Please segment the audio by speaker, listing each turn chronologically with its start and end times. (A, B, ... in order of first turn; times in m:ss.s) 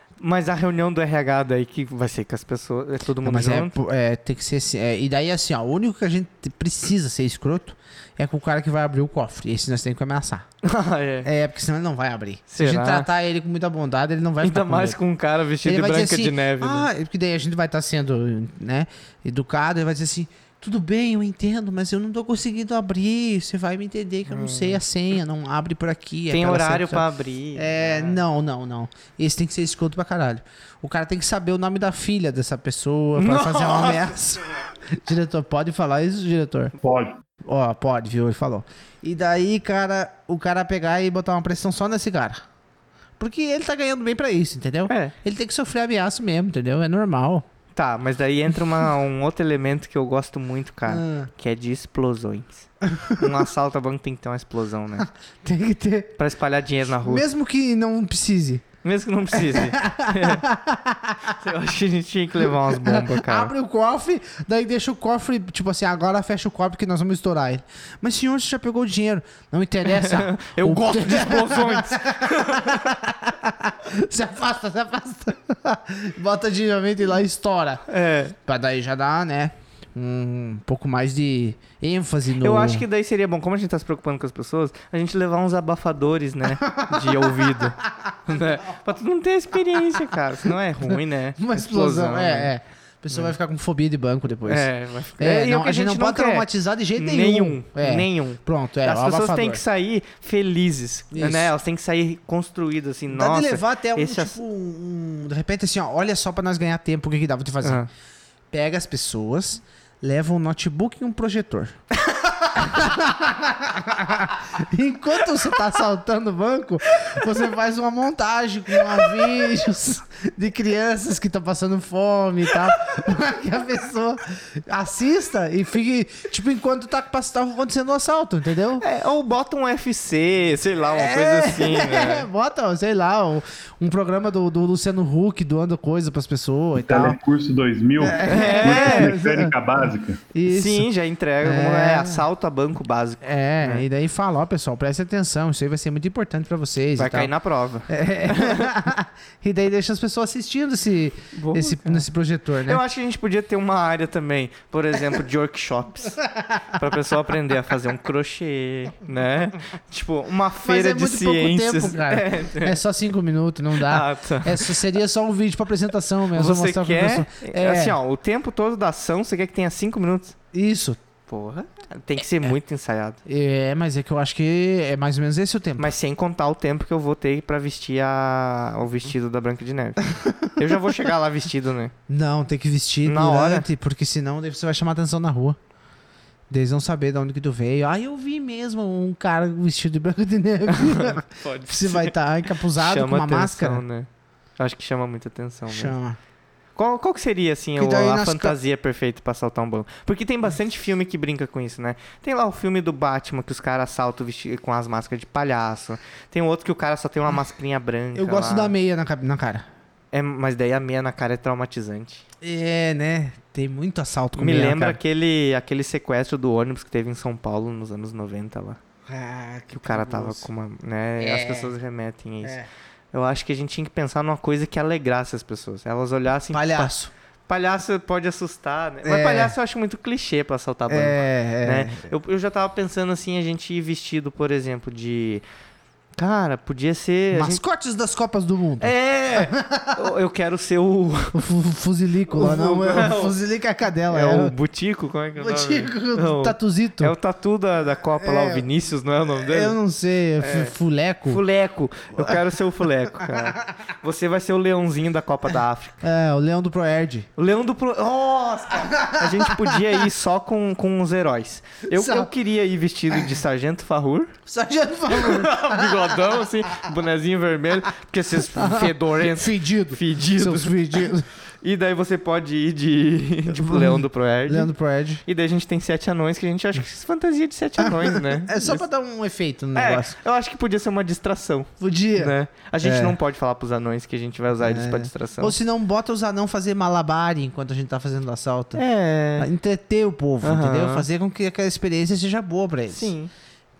0:00.2-0:03.7 A
0:03.2-0:10.4 B
0:10.6-0:11.3 A
0:11.2-0:15.0 B
0:12.5-0:13.1 A
0:14.4-0:16.9 A
0:15.6-0:27.0 B
0:24.3-0:24.8 A
0:26.3-0:28.2 A
0:27.5-0:36.7 B
0:33.2-0:34.1 A
0:36.8-0:37.2 C
0:37.4-0:42.4 B
0:43.2-0:47.4 B
0:44.9-0:45.1 A
0:47.7-0:55.1 A
0:50.9-0:51.3 B
0:55.4-0:56.2 B
0:56.2-0:57.2 A
0:57.0-0:58.6 B
0:58.8-1:00.4 A
0:59.3-1:01.3 B
1:01.3-1:03.5 A
1:02.8-1:17.8 B
1:09.8-1:12.9 A
1:17.9-1:18.3 A
1:18.4-1:22.8 B
1:22.4-1:32.5 A
1:26.6-1:27.7 B
1:30.9-1:34.7 B
1:34.4-1:44.4 A
1:35.2-1:39.6 B
1:41.1-1:41.5 B
1:43.1-1:47.9 B
1:48.5-1:51.8 B
1:52.3-2:08.8 B
2:08.8-2:12.3 A
2:11.0-2:17.2 B
2:16.7-2:20.2 C
2:18.0-2:19.5 B
2:18.2-2:19.2 A
2:20.3-2:20.9 B
2:20.5-2:23.8 A
2:21.4-2:22.2 B
2:23.2-2:27.3 B
2:27.0-2:28.7 A
2:27.9-2:32.8 B
2:31.4-2:32.1 A
2:32.6-2:42.8 A
2:36.3-2:36.7 B
2:40.6-2:48.0 B
2:43.8-2:44.8 A
2:46.3-2:50.3 A
2:50.5-2:51.0 B
2:51.3-2:53.2 A
2:53.2-2:55.9 B
2:55.8-3:01.9 A
3:00.2-3:00.5 B
3:02.1-3:05.6 B
3:03.0-3:03.7 A
3:06.5-3:13.8 B
3:10.7-3:12.1 A
3:12.8-3:14.1 A
3:14.6-3:15.9 A
3:15.7-3:16.2 B
3:16.8-3:28.7 A
3:17.8-3:18.5 B
3:28.1-3:29.6 B
3:30.1-3:32.2 A
3:32.4-3:35.0 B
3:34.4-3:38.8 A
3:39.1-3:40.5 B
3:39.7-3:42.6 A
3:41.2-3:41.7 B
3:43.1-3:46.9 A
3:46.5-3:47.1 B
3:47.5-3:55.4 A
3:49.0-3:49.5 B
3:50.9-3:52.1 B
3:56.2-3:57.6 A
3:57.3-4:00.0 B
3:58.8-4:01.4 A
4:01.3-4:04.5 B
4:02.3-4:03.3 A
4:04.1-4:09.8 A
4:05.4-4:07.1 B
4:08.2-4:08.7 B
4:09.4-4:11.4 B
4:10.4-4:10.7 A
4:11.3-4:16.0 A
4:13.2-4:13.5 B
4:16.0-4:17.3 B
4:17.4-4:24.3 A
4:18.8-4:19.8 B
4:21.9-4:22.3 B
4:24.5-4:26.3 B
4:25.1-4:31.1 A
4:28.5-4:31.3 B
4:31.6-4:34.7 A
4:33.5-4:35.2 B
4:35.2-4:38.8 A
4:37.8-4:40.2 B
4:39.7-4:45.6 A
4:41.8-4:43.1 B
4:44.6-4:48.8 B
4:48.7-4:49.5 A
4:49.4-4:53.1 B
4:50.4-4:51.1 A
4:52.9-4:53.3 A